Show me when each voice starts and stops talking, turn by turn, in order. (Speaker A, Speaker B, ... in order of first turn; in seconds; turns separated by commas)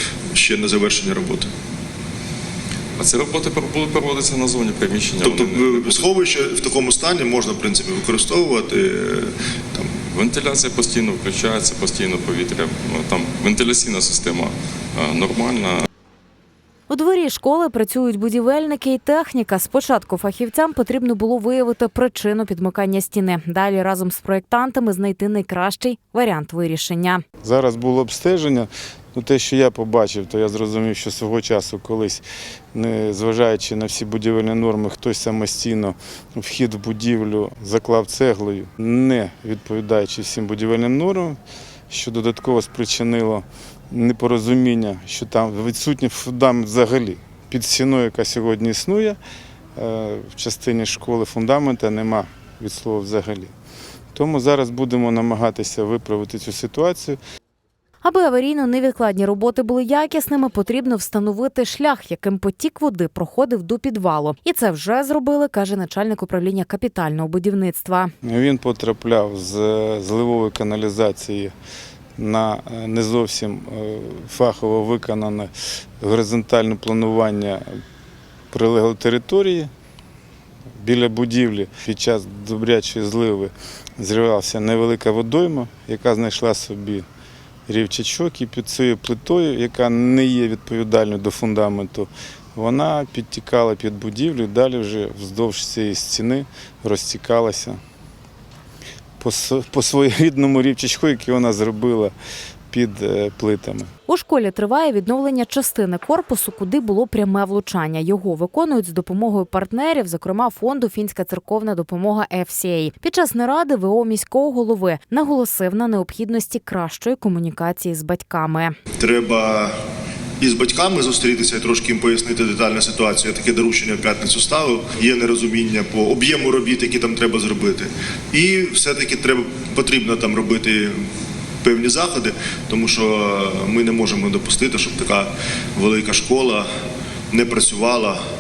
Speaker A: 0.3-1.5, Speaker B: 3.0-6.0, Speaker A: 5.2-10.0, Speaker B: 10.1-15.9, Speaker C: 16.9-27.2, Speaker D: 27.4-41.4, Speaker D: 41.9-49.2, Speaker D: 49.8-53.5, Speaker D: 54.1-57.2, Speaker C: 58.0-68.1, Speaker D: 68.2-71.5, Speaker D: 72.2-77.7, Speaker D: 78.5-79.7, Speaker D: 80.8-87.0, Speaker D: 87.7-97.8, Speaker D: 99.2-102.1, Speaker D: 102.7-103.9, Speaker C: 104.1-118.7, Speaker A: 119.0-119.8, Speaker A: 120.4-131.1, Speaker A: 131.6-136.7, Speaker A: 137.3-138.2